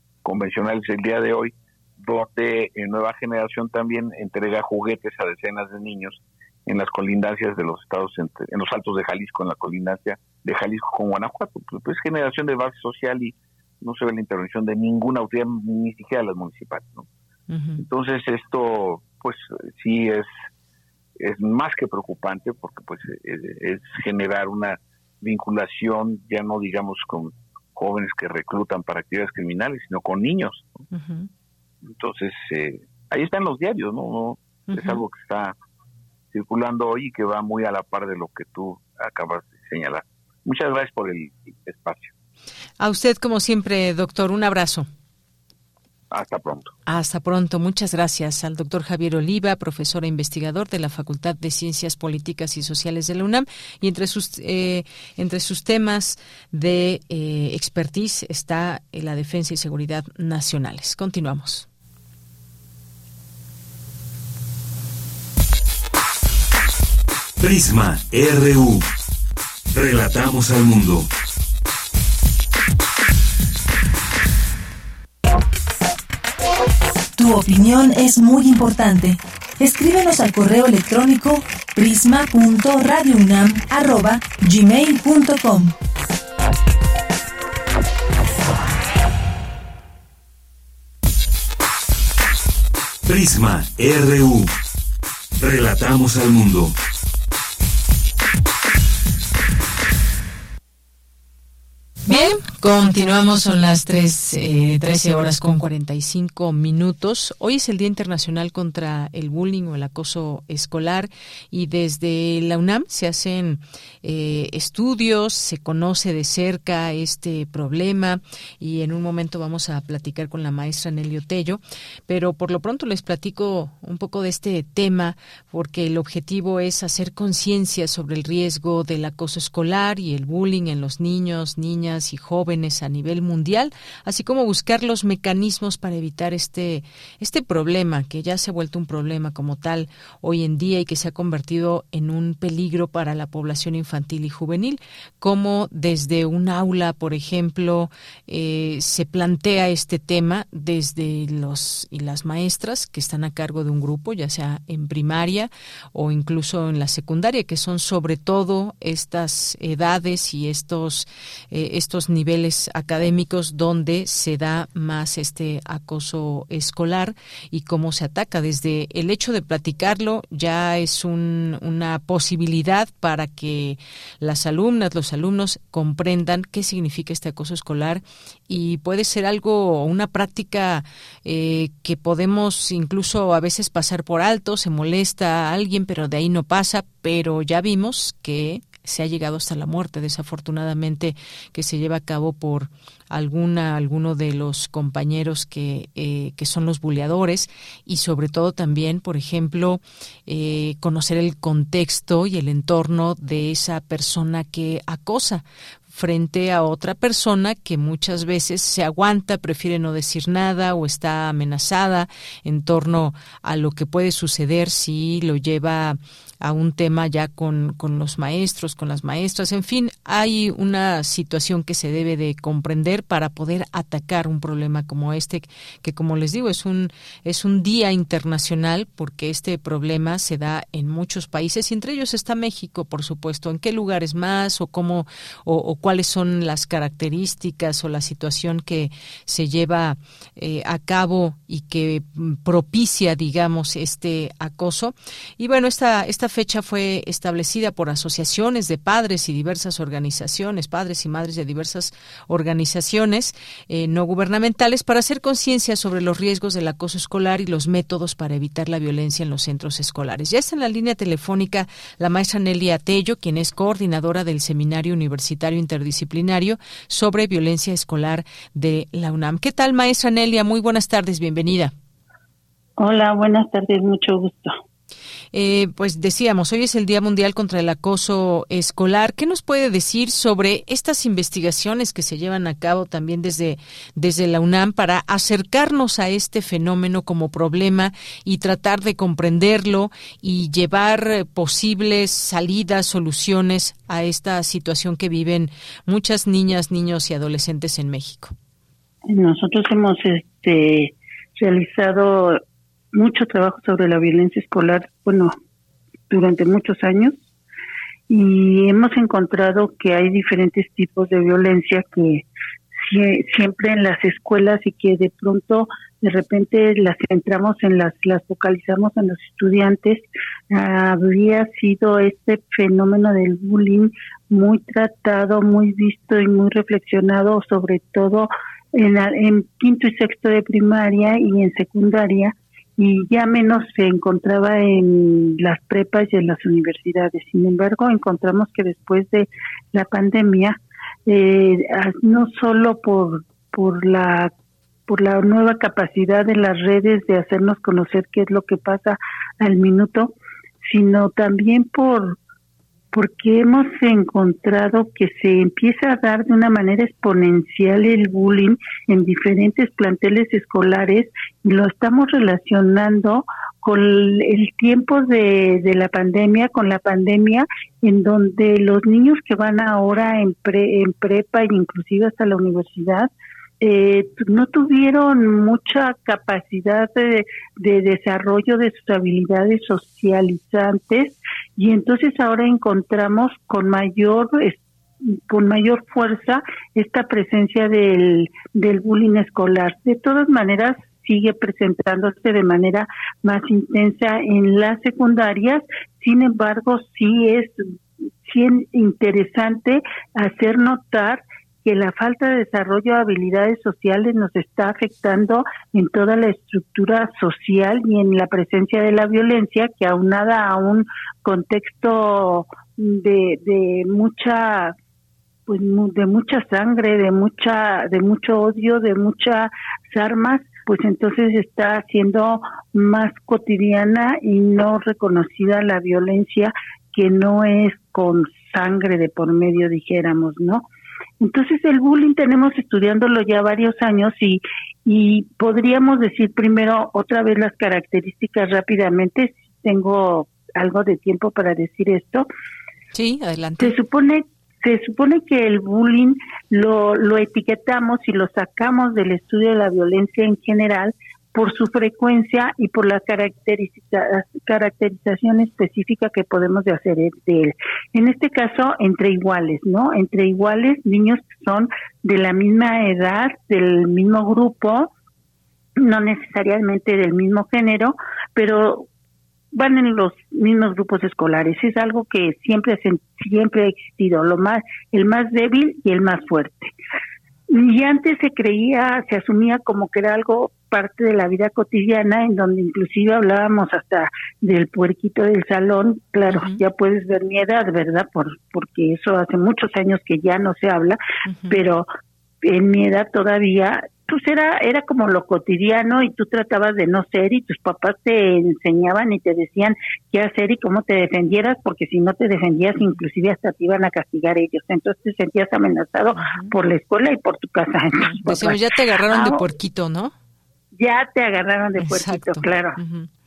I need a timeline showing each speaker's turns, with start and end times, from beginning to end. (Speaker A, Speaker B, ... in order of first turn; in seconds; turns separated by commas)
Speaker A: 0.2-17.1, Speaker B: 17.5-17.8, Speaker A: 17.8-20.3, Speaker A: 21.2-30.7, Speaker B: 30.9-31.3, Speaker A: 31.8-35.5, Speaker B: 34.7-35.0, Speaker A: 36.3-42.1, Speaker B: 42.8-44.9, Speaker A: 46.1-46.7, Speaker B: 46.9-61.7, Speaker C: 67.4-68.9, Speaker C: 69.7-71.1, Speaker D: 77.2-85.7, Speaker C: 93.1-94.5, Speaker C: 95.4-96.7, Speaker B: 102.1-271.7, Speaker E: 272.8-274.6, Speaker B: 275.3-298.3, Speaker E: 299.1-302.4, Speaker E: 302.9-305.4, Speaker E: 306.1-307.2, Speaker E: 308.1-344.3, Speaker E: 344.9-352.2, Speaker E: 352.9-397.7, Speaker E: 398.2-414.7, Speaker E: 415.5-430.6, Speaker E: 431.2-442.3, Speaker B: 442.9-443.8, Speaker E: 443.6-464.9, Speaker E: 465.8-468.9, Speaker E: 469.5-476.7, Speaker E: 477.5-491.0, Speaker B: 486.3-486.6, Speaker B: 491.3-491.6, Speaker E: 491.5-491.9, Speaker E: 492.4-509.4, Speaker B: 506.2-506.5, Speaker B: 508.1-510.1, Speaker E: 510.8-512.8, Speaker B: 511.8-513.1